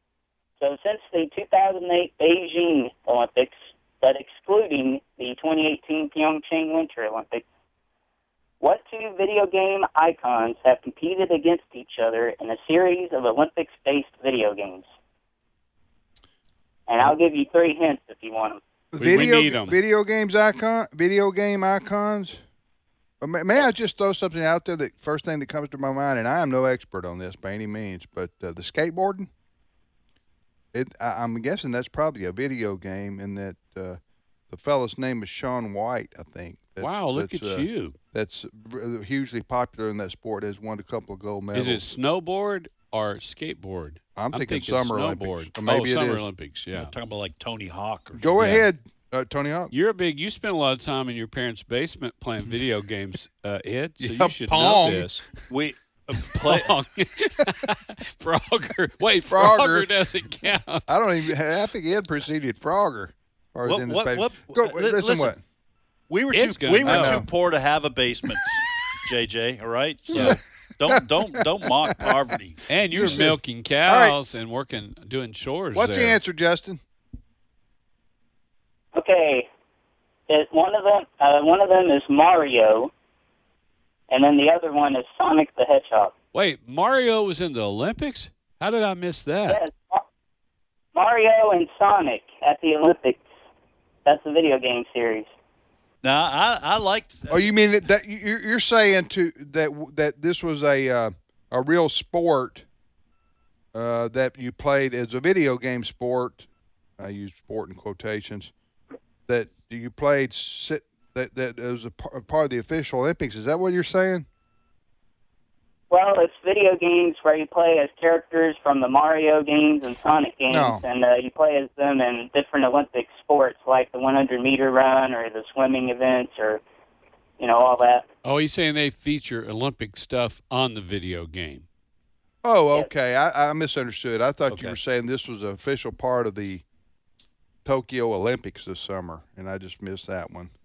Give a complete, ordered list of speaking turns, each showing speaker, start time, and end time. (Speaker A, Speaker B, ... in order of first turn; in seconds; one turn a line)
Speaker A: 0.6-7.4
Speaker A: 8.6-14.9
Speaker A: 16.9-18.6
Speaker B: 18.9-22.4
Speaker C: 19.0-19.8
Speaker B: 23.2-29.3
Speaker B: 30.7-41.8
Speaker C: 36.8-38.0
Speaker C: 41.5-46.9
Speaker B: 44.1-46.3
Speaker D: 46.7-48.6
Speaker B: 48.2-49.7
Speaker C: 49.7-55.2
Speaker B: 54.0-55.2
Speaker D: 55.5-56.7
Speaker C: 56.3-60.8
Speaker B: 59.3-59.9
Speaker B: 60.9-65.4
Speaker D: 63.6-65.3
Speaker D: 66.1-73.2
Speaker C: 66.3-67.2
Speaker B: 66.8-67.3
Speaker B: 70.1-72.2
Speaker C: 72.7-76.2
Speaker B: 72.9-74.2
Speaker B: 75.7-76.8
Speaker A: 78.9-79.5
Speaker A: 80.3-82.9
Speaker A: 84.1-86.1
Speaker C: 86.3-89.6
Speaker A: 89.5-90.0
Speaker A: 90.9-93.2
Speaker A: 94.0-95.3
Speaker D: 96.0-97.5
Speaker B: 97.3-102.7
Speaker B: 103.7-108.5
Speaker B: 109.3-114.2
Speaker A: 115.9-126.6
Speaker B: 120.5-120.8
Speaker A: 127.4-128.1
Speaker C: 128.2-131.7
Speaker B: 132.4-136.6
Speaker D: 134.5-134.8
Speaker B: 137.6-140.5